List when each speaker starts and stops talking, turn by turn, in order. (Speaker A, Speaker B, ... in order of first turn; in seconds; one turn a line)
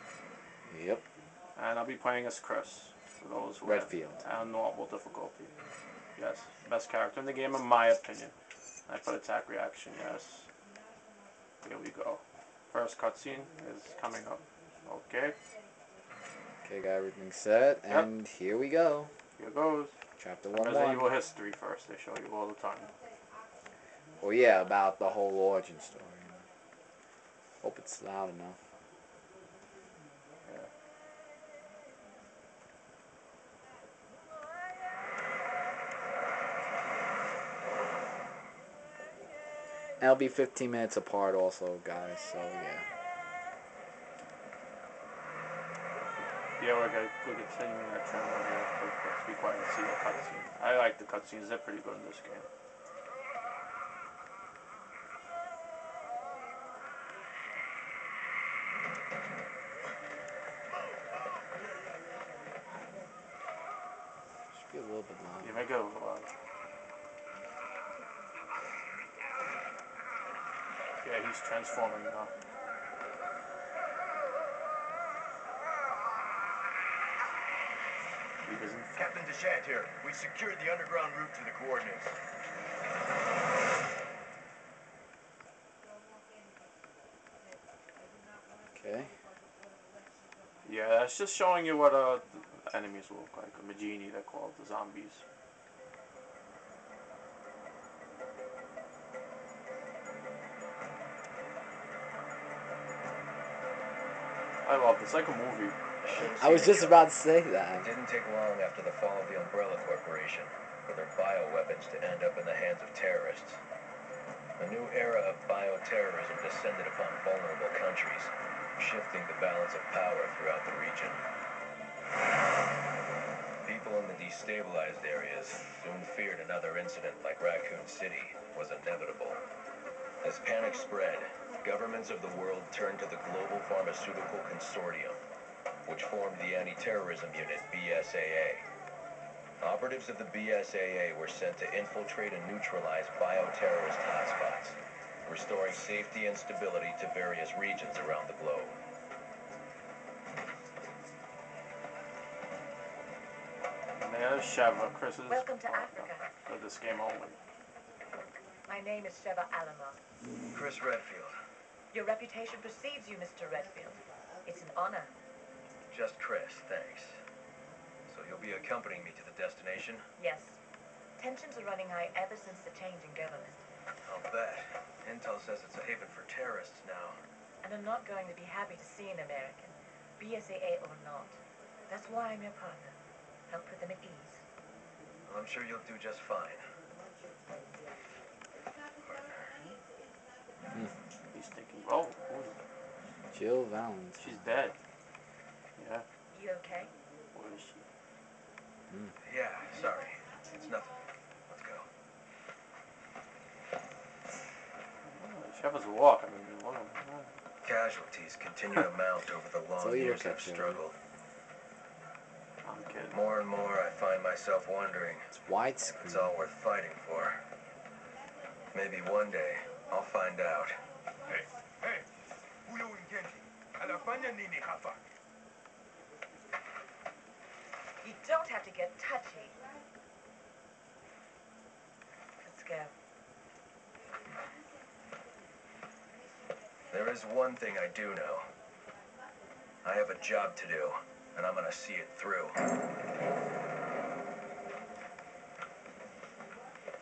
Speaker A: 0.7-1.0
Speaker B: 1.6-5.5
Speaker A: 3.6-4.2
Speaker B: 6.2-8.3
Speaker B: 8.9-10.5
Speaker B: 11.6-15.4
Speaker A: 16.6-19.1
Speaker B: 19.4-19.9
Speaker A: 20.2-21.1
Speaker B: 20.5-22.9
Speaker A: 24.2-26.4
Speaker A: 27.6-28.6
Speaker A: 40.0-42.9
Speaker B: 46.6-52.5
Speaker A: 64.5-65.6
Speaker B: 65.4-66.3
Speaker B: 71.0-72.3
Speaker B: 78.4-79.2
Speaker C: 79.0-82.1
Speaker A: 88.7-89.1
Speaker B: 90.6-95.2
Speaker B: 104.6-105.8
Speaker C: 106.0-107.0
Speaker A: 106.3-107.9
Speaker C: 107.8-113.6
Speaker C: 114.6-121.2
Speaker C: 123.6-129.4
Speaker C: 130.2-135.2
Speaker C: 135.8-138.6
Speaker C: 139.6-148.8
Speaker B: 153.9-157.4
Speaker D: 155.3-156.3
Speaker D: 158.7-160.0
Speaker C: 160.5-161.3
Speaker D: 161.9-165.1
Speaker C: 165.9-167.2
Speaker C: 168.1-170.0
Speaker D: 170.2-170.6
Speaker D: 171.2-173.6
Speaker C: 174.0-177.2
Speaker D: 177.6-183.0
Speaker D: 183.5-184.4
Speaker C: 185.3-186.6
Speaker B: 191.3-192.6
Speaker A: 193.3-194.6
Speaker B: 194.2-194.7
Speaker B: 195.8-196.0
Speaker D: 196.3-196.9
Speaker B: 197.3-197.8
Speaker C: 199.2-201.9
Speaker B: 205.0-207.3
Speaker C: 207.6-210.9
Speaker A: 209.8-210.8
Speaker B: 212.6-213.2
Speaker C: 213.1-215.3
Speaker A: 215.3-216.4
Speaker C: 216.0-217.4
Speaker C: 218.7-220.8
Speaker E: 221.2-222.1
Speaker E: 222.6-225.0
Speaker D: 228.0-229.6
Speaker D: 232.4-232.9
Speaker C: 236.9-238.5
Speaker C: 239.8-242.6